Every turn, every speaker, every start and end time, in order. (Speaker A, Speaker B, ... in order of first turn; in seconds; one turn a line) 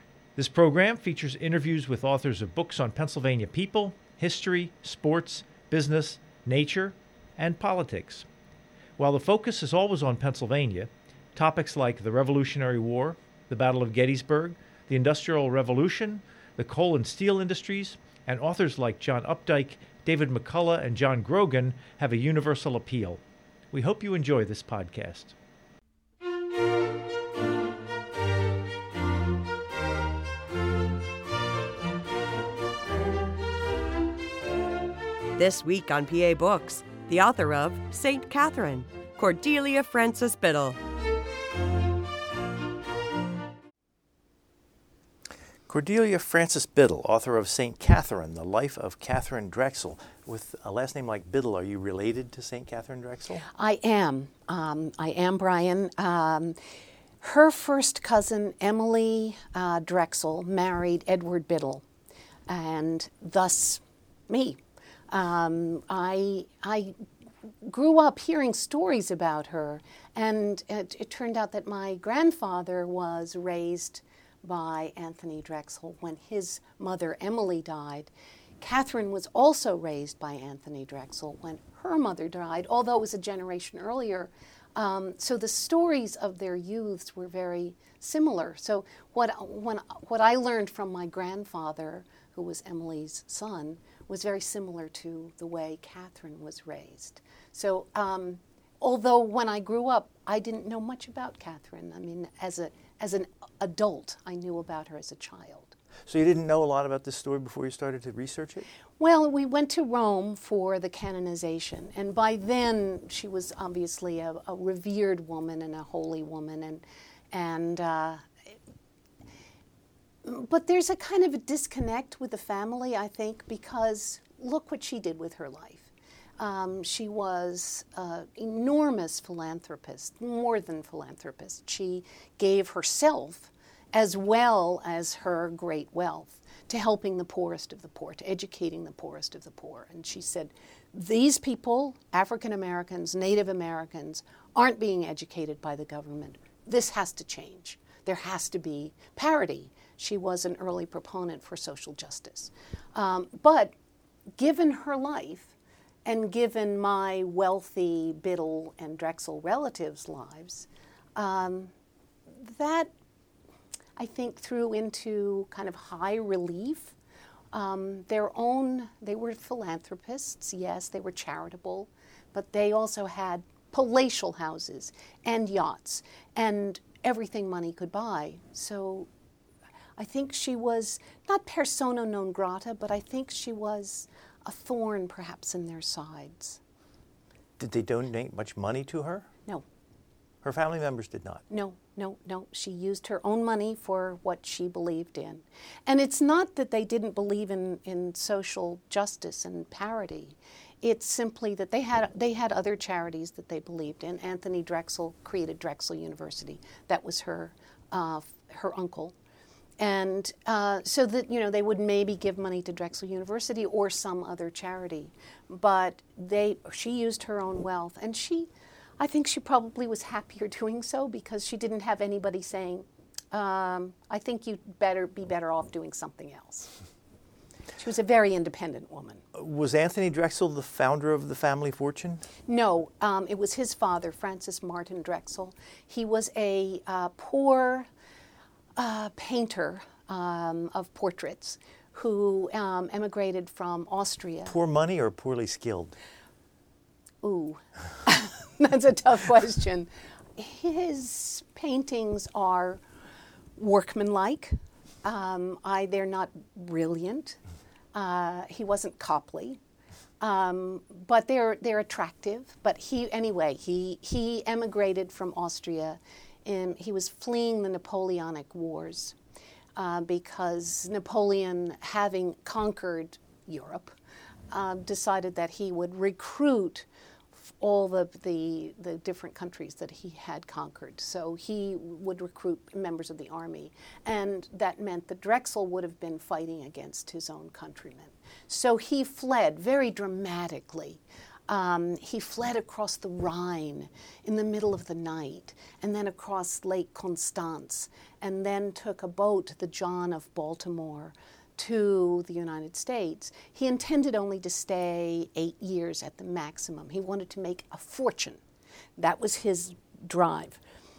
Speaker A: 0.3-8.2
Speaker A: 9.0-25.3
Speaker B: 35.4-40.8
Speaker A: 45.7-53.4
Speaker C: 53.5-56.6
Speaker C: 57.2-61.8
Speaker C: 62.5-67.0
Speaker C: 67.6-105.7
Speaker A: 106.1-108.7
Speaker C: 109.0-118.3
Speaker C: 120.2-153.7
Speaker C: 154.4-155.5
Speaker C: 156.0-161.7
Speaker C: 162.3-162.9
Speaker C: 164.0-166.9
Speaker C: 167.5-179.1
Speaker C: 180.0-186.6
Speaker A: 187.6-189.3
Speaker A: 190.4-191.4
Speaker C: 191.5-209.1
Speaker C: 209.8-226.7
Speaker C: 227.8-229.2
Speaker A: 229.3-232.3
Speaker C: 232.4-237.9
Speaker C: 238.8-244.5
Speaker A: 244.4-245.9
Speaker C: 247.2-252.8
Speaker C: 253.6-257.4
Speaker C: 257.9-259.6
Speaker C: 260.2-269.1
Speaker C: 269.7-273.9
Speaker C: 274.5-308.4
Speaker C: 309.0-310.6